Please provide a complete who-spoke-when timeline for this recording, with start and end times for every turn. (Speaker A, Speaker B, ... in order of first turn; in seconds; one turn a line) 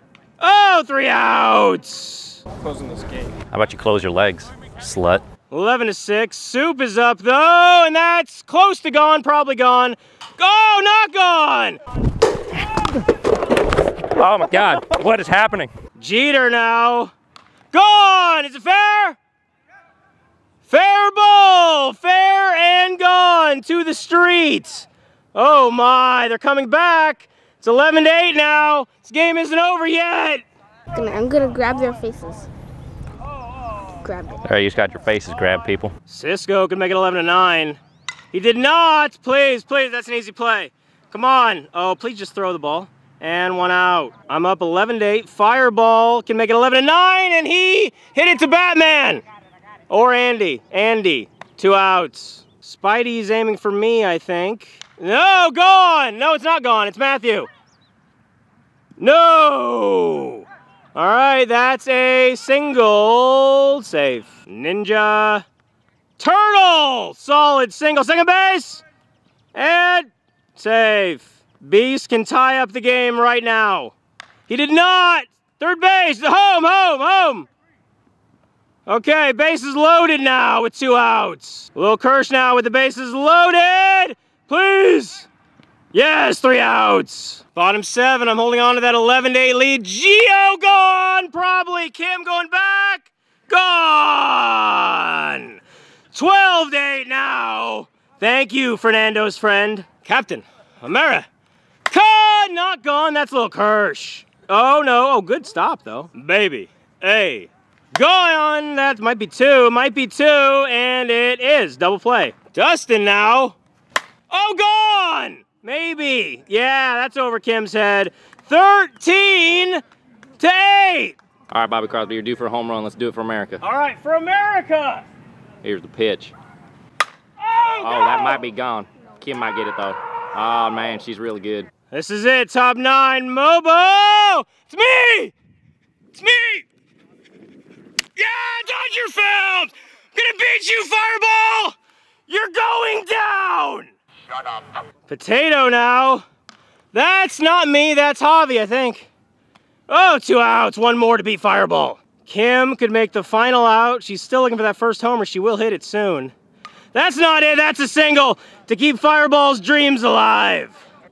Speaker A: 0.4-2.4
Speaker B: 3.5-5.2
Speaker A: 5.5-11.8
Speaker B: 14.1-15.7
Speaker A: 16.0-17.1
Speaker A: 17.7-19.2
Speaker A: 20.6-30.4
Speaker C: 30.9-32.5
Speaker C: 34.0-34.4
Speaker B: 34.4-35.9
Speaker A: 36.1-37.8
Speaker A: 38.3-49.2
Speaker A: 49.9-57.5
Speaker A: 59.0-65.4
Speaker A: 66.2-68.8
Speaker A: 69.5-73.9
Speaker A: 74.5-77.5
Speaker A: 78.8-85.3
Speaker A: 85.9-95.6
Speaker A: 96.1-101.3
Speaker A: 101.9-113.5
Speaker A: 114.3-119.8
Speaker A: 120.4-121.2
Speaker B: 121.5-123.6
Speaker A: 123.6-125.0
Speaker B: 125.6-126.3
Speaker A: 127.4-128.4
Speaker B: 127.8-131.7
Speaker A: 131.9-135.3
Speaker A: 136.1-136.7
Speaker A: 138.2-141.8
Speaker A: 142.3-143.9
Speaker A: 145.1-146.2
Speaker A: 146.9-149.1
Speaker A: 149.9-156.3
Speaker A: 156.9-160.8